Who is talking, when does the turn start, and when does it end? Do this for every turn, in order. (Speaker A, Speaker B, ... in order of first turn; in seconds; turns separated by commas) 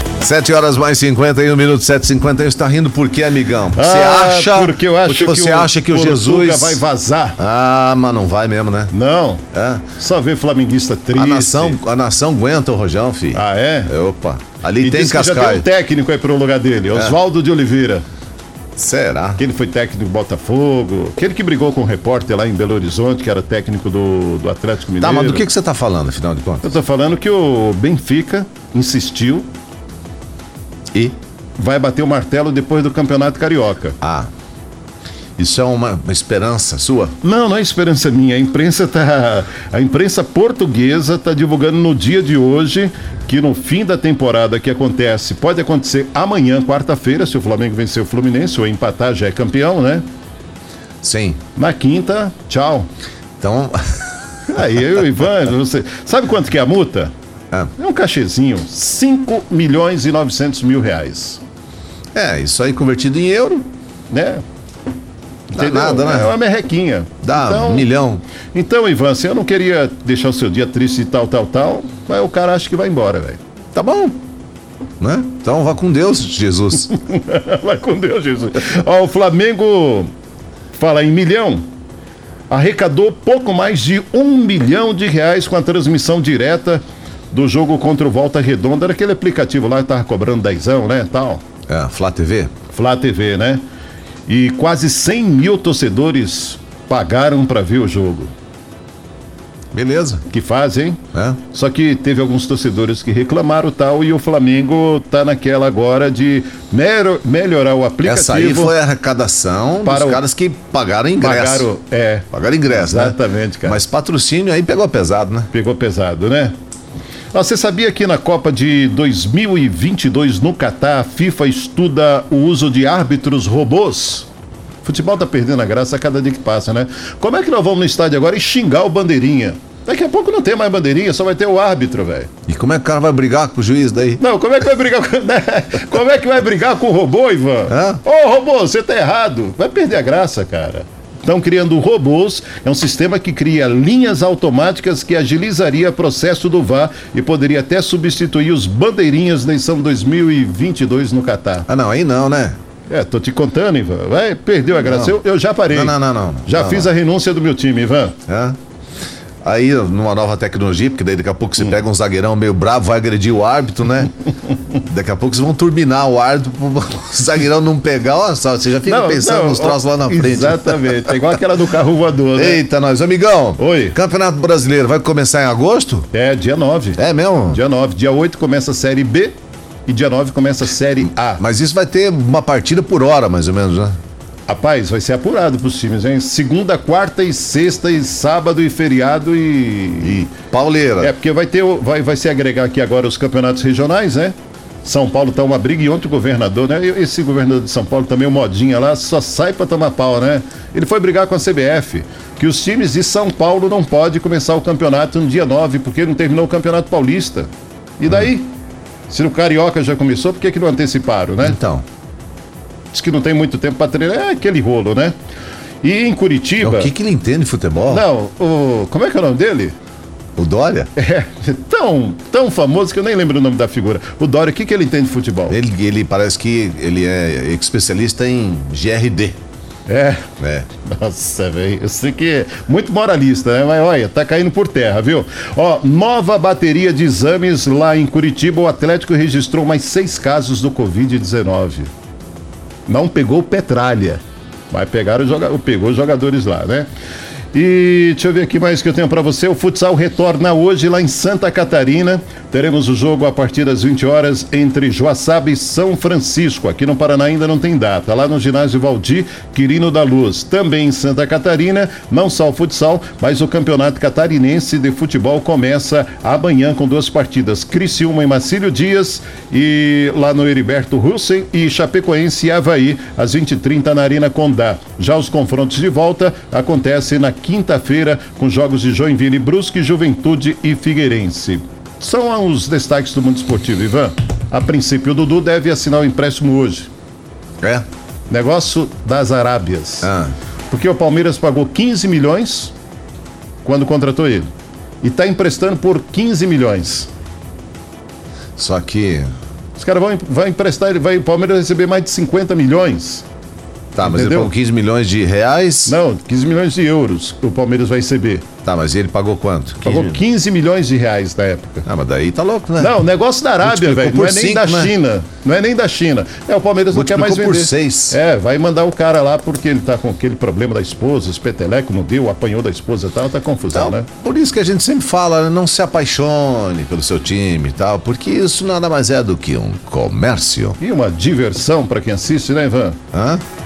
Speaker A: 0.2-6.8, Speaker B: 3.7-7.4, Speaker A: 7.4-8.9, Speaker B: 8.9-9.4, Speaker A: 9.5-9.9, Speaker B: 9.9-11.8, Speaker A: 11.1-15.7, Speaker B: 13.3-13.9, Speaker B: 14.8-18.0, Speaker A: 18.8-19.4, Speaker B: 19.4-25.4, Speaker A: 25.0-26.7, Speaker B: 26.6-29.5, Speaker B: 31.6-34.0, Speaker A: 34.0-34.3, Speaker A: 35.4-37.1, Speaker B: 37.2-50.0, Speaker A: 51.0-51.4, Speaker B: 51.5-52.9, Speaker A: 53.4-54.1, Speaker B: 54.5-57.1, Speaker B: 57.8-61.4, Speaker A: 62.1-63.7, Speaker B: 64.1-64.4, Speaker A: 65.5-66.3, Speaker B: 65.5-67.9, Speaker A: 67.2-68.2, Speaker B: 68.5-73.4, Speaker A: 73.7-74.2, Speaker A: 75.0-76.9, Speaker B: 76.9-80.1, Speaker B: 80.8-81.7, Speaker B: 82.5-91.4, Speaker A: 91.7-92.5, Speaker B: 92.7-93.6, Speaker B: 94.3-98.3, Speaker A: 99.7-100.2, Speaker B: 100.3-108.8, Speaker A: 101.1-101.4, Speaker A: 108.0-111.7, Speaker B: 109.8-110.2, Speaker B: 111.2-113.8, Speaker A: 112.3-115.5, Speaker B: 115.5-116.5, Speaker B: 117.3-124.3, Speaker B: 124.8-132.3, Speaker A: 132.5-134.2, Speaker B: 134.2-151.7, Speaker A: 137.7-138.0, Speaker A: 151.7-152.6, Speaker B: 152.9-158.2, Speaker A: 154.8-155.2, Speaker A: 155.7-156.9, Speaker A: 158.3-158.6, Speaker A: 159.4-164.1, Speaker A: 164.8-171.2, Speaker B: 168.8-172.6, Speaker A: 172.3-176.1, Speaker B: 173.6-173.9, Speaker B: 176.1-179.3, Speaker A: 177.0-177.6, Speaker B: 179.9-181.4, Speaker A: 181.4-184.0, Speaker B: 184.5-190.2, Speaker A: 190.0-191.1, Speaker B: 191.0-208.5, Speaker B: 209.1-211.6, Speaker A: 211.4-211.8, Speaker B: 212.9-215.2, Speaker B: 215.8-216.9, Speaker A: 216.6-218.0, Speaker B: 217.9-219.8, Speaker A: 220.3-220.9, Speaker B: 220.9-225.6, Speaker A: 225.5-229.4, Speaker B: 229.9-230.2, Speaker A: 230.4-230.7, Speaker B: 230.8-241.9, Speaker B: 242.9-246.9, Speaker B: 247.5-286.9, Speaker B: 288.3-290.1, Speaker A: 290.0-290.3, Speaker B: 290.7-292.7, Speaker B: 293.6-294.5, Speaker B: 295.0-297.1, Speaker A: 298.6-299.3, Speaker B: 299.8-303.2, Speaker A: 303.9-306.0, Speaker B: 304.0-304.5, Speaker B: 305.9-308.4, Speaker A: 308.6-310.2, Speaker B: 309.8-311.8, Speaker A: 311.8-313.0, Speaker B: 312.8-324.1, Speaker A: 313.6-314.9, Speaker A: 316.9-318.2, Speaker A: 323.7-330.8, Speaker B: 330.8-333.0, Speaker A: 333.1-333.4